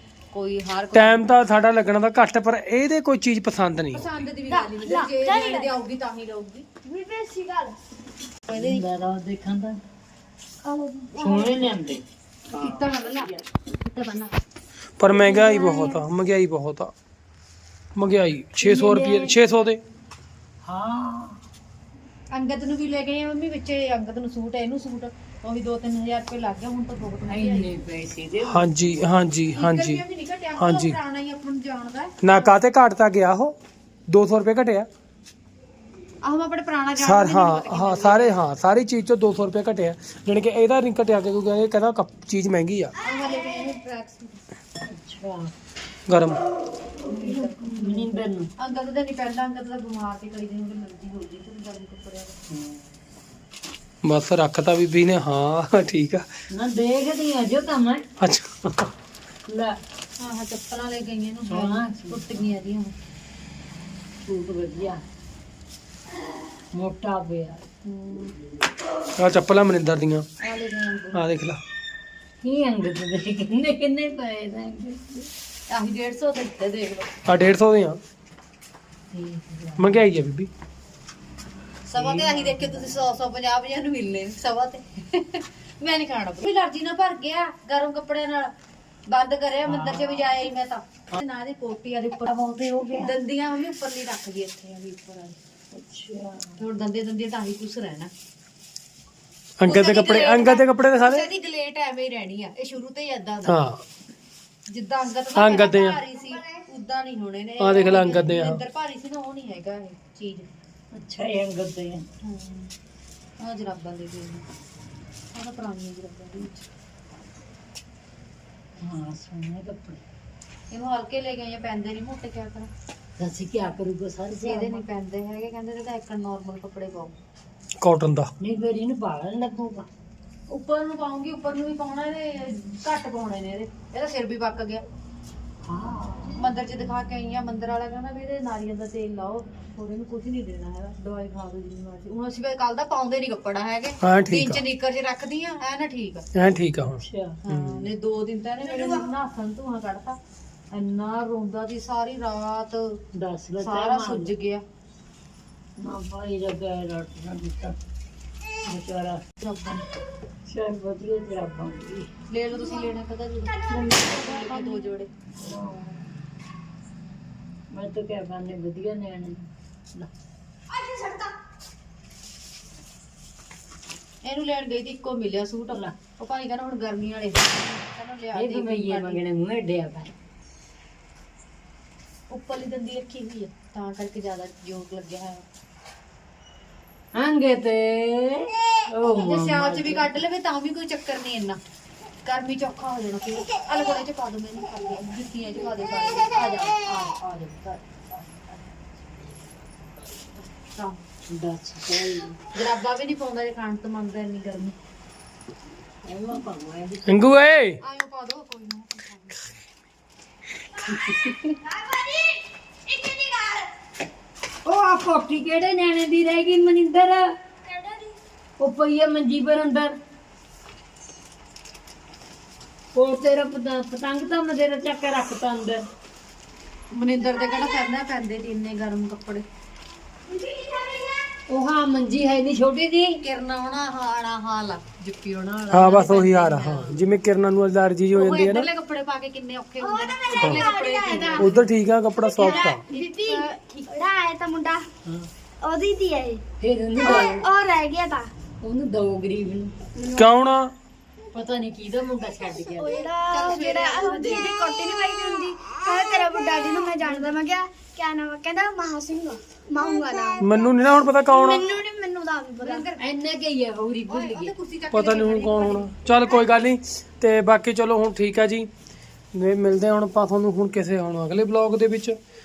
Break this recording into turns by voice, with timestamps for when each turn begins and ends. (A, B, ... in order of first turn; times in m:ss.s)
0:00.3-0:01.3 A
0:00.9-0:04.1 B
0:03.9-0:06.6 A
0:04.5-0:05.8 C
0:06.8-0:07.8 C
0:08.5-0:08.8 A
0:08.5-0:09.8 D
0:10.6-0:11.5 C
0:11.1-0:12.0 D
0:12.5-0:14.4 A
0:12.6-0:12.9 D
0:15.0-0:16.9 B
0:15.1-0:16.0 C
0:18.0-0:19.8 B
0:18.8-0:19.3 C
0:20.6-0:21.4 D
0:22.3-0:27.7 A
0:27.2-0:28.7 D
0:28.4-0:30.0 B
0:29.5-0:32.6 A
0:30.6-0:31.0 B
0:32.2-0:33.5 B
0:34.1-0:34.9 B
0:36.2-0:38.4 A
0:37.0-0:42.9 B
0:43.0-0:44.4 A
0:44.9-0:45.5 D
0:46.1-0:46.4 B
0:47.0-0:48.5 D
0:47.1-0:52.4 A
0:52.5-0:52.8 D
0:54.0-0:56.2 B
0:56.5-0:58.0 D
0:58.2-0:58.9 B
0:59.5-0:59.8 D
1:00.2-1:02.9 A
1:01.5-1:02.5 D
1:04.2-1:05.0 D
1:06.7-1:07.6 D
1:07.8-1:08.3 A
1:09.2-1:10.3 B
1:10.4-1:11.3 A
1:11.1-1:11.6 B
1:12.4-1:15.3 D
1:15.7-1:17.1 A
1:17.2-1:18.0 B
1:19.1-1:20.1 D
1:19.8-1:20.5 B
1:21.9-1:28.5 A
1:22.0-1:23.0 D
1:29.1-1:32.3 A
1:29.7-1:30.2 D
1:32.2-1:33.1 D
1:33.0-1:35.4 A
1:35.7-1:36.6 D
1:36.6-1:38.1 A
1:39.6-1:41.3 B
1:39.6-1:43.7 A
1:43.4-1:43.8 B
1:44.7-1:50.5 A
1:45.3-1:46.0 B
1:47.6-1:48.6 B
1:47.9-1:48.2 D
1:50.9-1:52.1 D
1:52.2-1:52.7 A
1:53.4-1:54.4 A
1:55.3-1:56.6 A
1:58.8-2:00.0 D
2:00.7-2:02.7 A
2:03.2-2:04.8 D
2:04.4-2:07.1 A
2:07.8-2:08.3 B
2:08.4-2:09.9 D
2:10.5-2:14.8 A
2:15.6-2:16.4 D
2:16.3-2:26.3 A
2:24.0-2:24.6 B
2:26.3-2:27.8 B
2:27.0-2:27.4 D
2:27.4-2:30.2 A
2:30.7-2:33.0 A
2:33.2-2:34.3 D
2:33.6-2:34.6 A
2:35.8-2:37.8 D
2:38.7-2:39.2 D
2:39.4-2:39.8 A
2:40.4-2:42.1 D
2:42.3-2:45.1 A
2:43.7-2:44.8 D
2:45.4-2:46.1 D
2:47.7-2:50.1 D
2:50.8-2:51.2 C
2:54.2-2:59.2 A
2:58.3-3:00.1 D
3:02.3-3:05.4 A
3:07.1-3:10.1 D
3:09.0-3:11.6 A
3:12.2-3:18.8 A
3:20.3-3:21.0 A
3:21.3-3:22.4 D
3:22.5-3:24.8 A
3:26.0-3:27.3 D
3:27.1-3:27.8 B
3:27.8-3:29.6 A
3:30.8-3:31.5 D
3:31.6-3:33.7 C
3:34.6-3:37.3 D
3:37.6-3:38.1 C
3:38.6-3:39.9 D
3:42.9-3:45.8 D
3:46.9-3:49.4 A
3:50.4-3:51.1 C
3:51.5-3:53.2 D
3:53.2-3:57.0 A
3:55.7-3:58.7 B
3:58.1-4:01.6 A
3:59.8-4:01.6 C
4:01.4-4:02.8 B
4:02.2-4:04.8 C
4:02.4-4:04.1 A
4:05.6-4:06.4 C
4:06.6-4:07.4 D
4:07.0-4:08.3 C
4:08.6-4:09.8 D
4:10.0-4:10.3 C
4:10.2-4:10.7 B
4:11.3-4:13.1 D
4:12.8-4:20.7 C
4:13.3-4:14.5 A
4:20.4-4:21.7 B
4:21.2-4:22.9 C
4:22.6-4:23.0 A
4:23.0-4:24.5 D
4:24.0-4:25.9 A
4:24.9-4:28.7 B
4:29.3-4:32.2 B